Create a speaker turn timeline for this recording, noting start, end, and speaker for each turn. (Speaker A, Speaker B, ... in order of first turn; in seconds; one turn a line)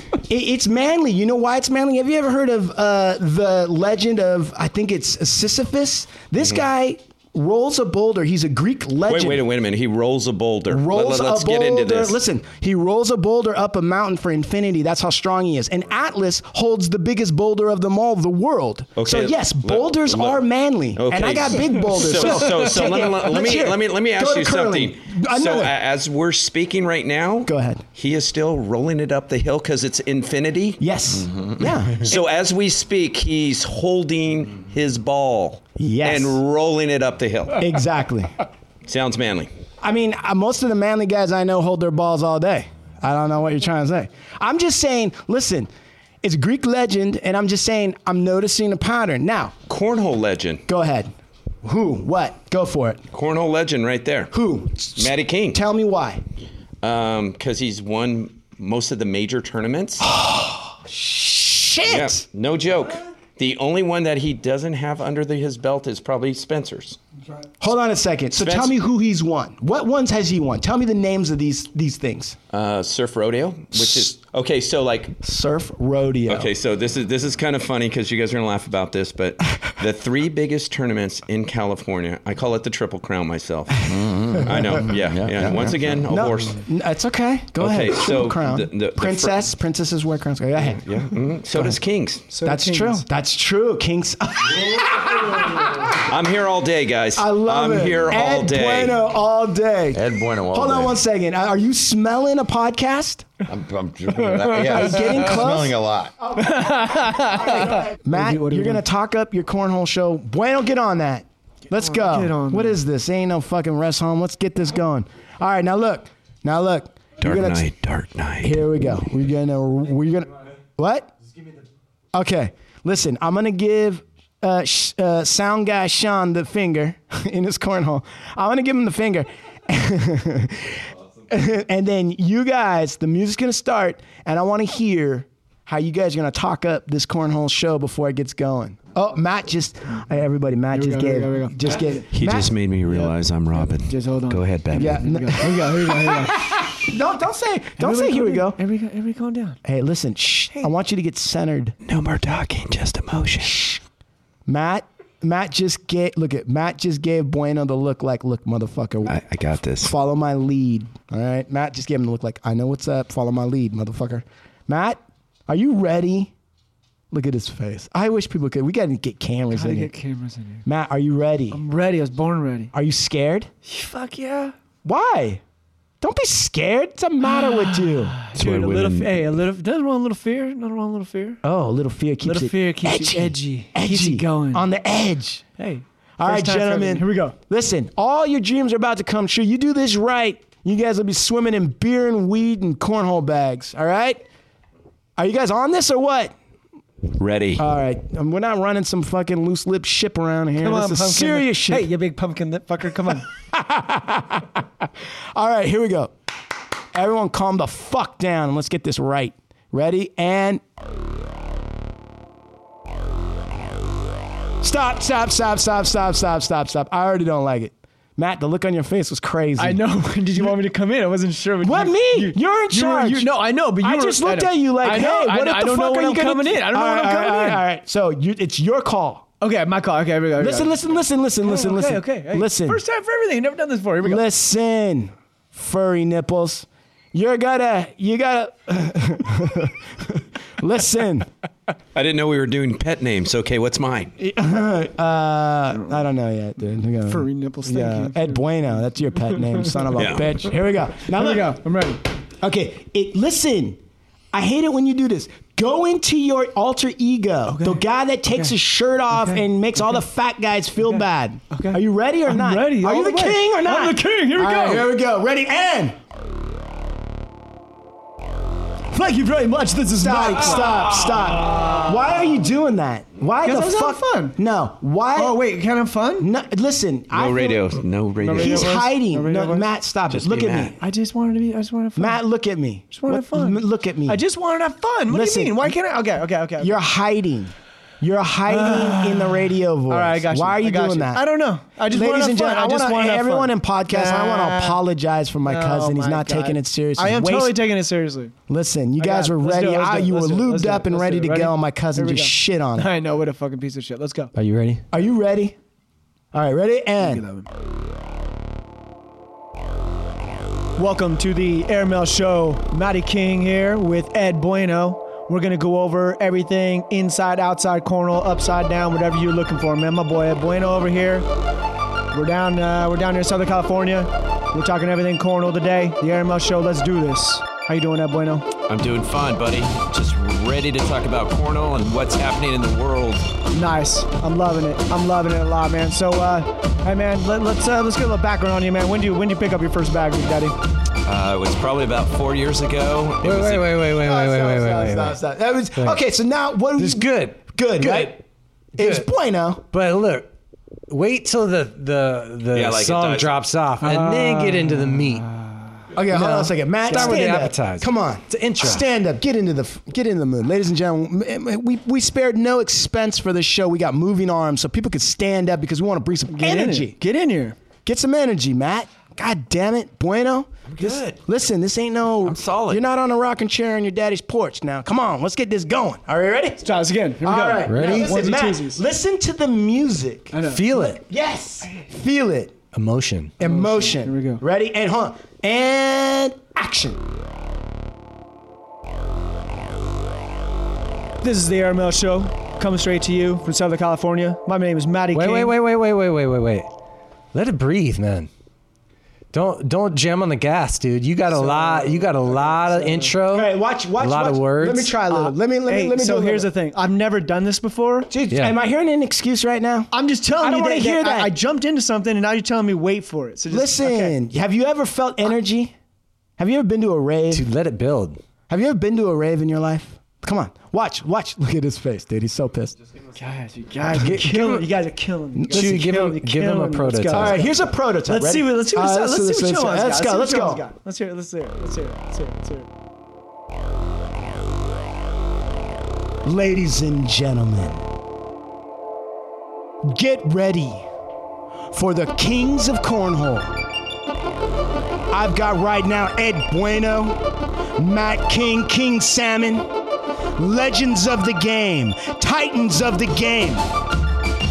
Speaker A: 0.3-9.4
Speaker B: 9.0-12.2
Speaker A: 10.7-25.7
Speaker B: 18.9-30.8
Speaker C: 22.2-22.9
Speaker A: 27.5-27.8
Speaker A: 30.8-32.1
Speaker B: 32.0-37.6
Speaker A: 35.8-36.4
Speaker A: 37.6-38.3
Speaker B: 38.9-39.5
Speaker A: 39.8-45.7
Speaker A: 46.2-49.5
Speaker B: 49.7-50.6
Speaker A: 50.7-51.1
Speaker A: 51.6-53.0
Speaker B: 53.1-54.3
Speaker A: 54.3-56.2
Speaker B: 55.0-55.6
Speaker B: 56.8-60.0
Speaker A: 60.0-62.2
Speaker B: 61.8-67.0
Speaker A: 67.6-72.4
Speaker B: 68.3-68.8
Speaker B: 72.5-75.2
Speaker A: 73.8-74.1
Speaker A: 75.2-76.5
Speaker B: 76.3-86.6
Speaker D: 83.8-86.0
Speaker A: 86.1-90.8
Speaker B: 87.6-89.5
Speaker B: 90.8-92.2
Speaker C: 92.3-93.0
Speaker A: 92.4-96.0
Speaker B: 96.1-99.0
Speaker A: 97.2-103.3
Speaker D: 99.9-101.0
Speaker D: 103.5-106.1
Speaker C: 104.2-105.2
Speaker A: 104.7-105.8
Speaker C: 106.3-108.8
Speaker A: 106.4-106.7
Speaker A: 107.3-117.6
Speaker C: 111.7-112.8
Speaker B: 117.2-118.6
Speaker A: 118.4-121.1
Speaker A: 122.1-142.5
Speaker C: 140.7-142.0
Speaker B: 142.1-145.2
Speaker C: 142.9-146.5
Speaker A: 144.7-148.6
Speaker C: 147.8-149.6
Speaker A: 149.7-151.8
Speaker B: 151.8-153.7
Speaker A: 153.4-153.8
Speaker A: 154.5-159.2
Speaker B: 159.0-159.9
Speaker A: 159.8-166.3
Speaker A: 167.1-169.9
Speaker C: 169.5-170.6
Speaker A: 170.6-171.6
Speaker C: 171.5-172.7
Speaker A: 172.7-173.5
Speaker C: 173.6-174.5
Speaker A: 174.8-175.4
Speaker A: 176.0-178.1
Speaker C: 177.2-181.4
Speaker B: 178.3-179.3
Speaker A: 181.4-185.4
Speaker C: 182.2-184.7
Speaker C: 185.6-187.3
Speaker A: 186.2-194.2
Speaker A: 195.2-196.3
Speaker B: 197.2-197.6
Speaker A: 197.6-201.9
Speaker C: 200.6-203.2
Speaker A: 203.5-204.4
Speaker A: 205.3-206.1
Speaker A: 206.9-210.6
Speaker A: 214.6-220.6
Speaker C: 219.6-227.6
Speaker A: 221.6-229.3
Speaker C: 229.4-234.2
Speaker A: 230.4-232.8
Speaker A: 234.0-241.3
Speaker B: 241.9-244.1
Speaker A: 244.2-251.6
Speaker C: 245.7-246.0
Speaker C: 247.1-248.4
Speaker C: 249.3-249.8
Speaker B: 249.9-250.4
Speaker C: 251.1-252.0
Speaker A: 252.4-253.8
Speaker A: 254.3-265.9
Speaker C: 257.5-258.5
Speaker C: 259.1-260.0
Speaker C: 260.8-264.9
Speaker C: 268.9-272.2
Speaker A: 270.0-275.4
Speaker C: 273.4-274.4
Speaker C: 275.1-276.3
Speaker A: 276.2-277.6
Speaker B: 277.1-278.8
Speaker C: 278.2-279.7
Speaker A: 278.4-280.8
Speaker B: 280.1-280.7
Speaker C: 280.8-282.2
Speaker A: 281.9-284.2
Speaker C: 282.9-286.8
Speaker A: 285.1-285.7
Speaker A: 286.6-291.2
Speaker C: 288.5-294.8
Speaker A: 291.9-297.7
Speaker C: 295.4-298.3
Speaker A: 298.5-302.9
Speaker C: 299.0-304.3
Speaker E: 304.3-304.8
Speaker A: 304.9-305.5
Speaker A: 306.3-307.2
Speaker C: 307.0-307.5
Speaker C: 310.8-321.2
Speaker C: 322.1-328.5
Speaker B: 328.6-333.3
Speaker C: 333.5-340.6
Speaker B: 341.0-343.8
Speaker E: 343.2-345.2
Speaker A: 343.9-348.2
Speaker E: 345.8-346.0
Speaker E: 346.8-348.1
Speaker A: 348.8-349.6
Speaker E: 348.8-349.1
Speaker E: 349.7-350.3
Speaker E: 350.9-355.3
Speaker B: 352.5-353.4
Speaker C: 353.8-355.6
Speaker A: 355.9-367.0
Speaker E: 356.1-358.9
Speaker C: 356.9-357.2
Speaker C: 366.3-367.6
Speaker A: 367.8-376.6
Speaker B: 370.6-371.2
Speaker B: 372.2-372.8
Speaker C: 376.6-378.8
Speaker A: 377.2-382.6
Speaker E: 377.6-378.2
Speaker C: 380.3-380.7
Speaker E: 380.4-381.0
Speaker E: 382.7-383.4
Speaker A: 383.4-387.0
Speaker C: 383.4-384.4
Speaker C: 391.2-395.5
Speaker E: 395.1-396.7
Speaker E: 397.3-398.3
Speaker E: 399.3-404.9
Speaker C: 401.3-403.2
Speaker A: 403.3-406.5
Speaker C: 405.0-408.1
Speaker A: 408.1-411.3
Speaker E: 408.3-408.6
Speaker C: 409.9-414.1
Speaker A: 413.5-415.7
Speaker A: 416.4-417.5
Speaker E: 417.3-418.2
Speaker A: 418.5-422.8
Speaker C: 423.1-432.7
Speaker E: 423.9-424.7
Speaker A: 424.0-424.5
Speaker A: 425.3-426.0
Speaker E: 425.5-427.5
Speaker A: 427.1-430.6
Speaker A: 436.2-437.9
Speaker A: 439.8-440.8
Speaker A: 441.7-443.5
Speaker A: 445.1-447.2
Speaker A: 447.8-449.6
Speaker A: 450.4-453.6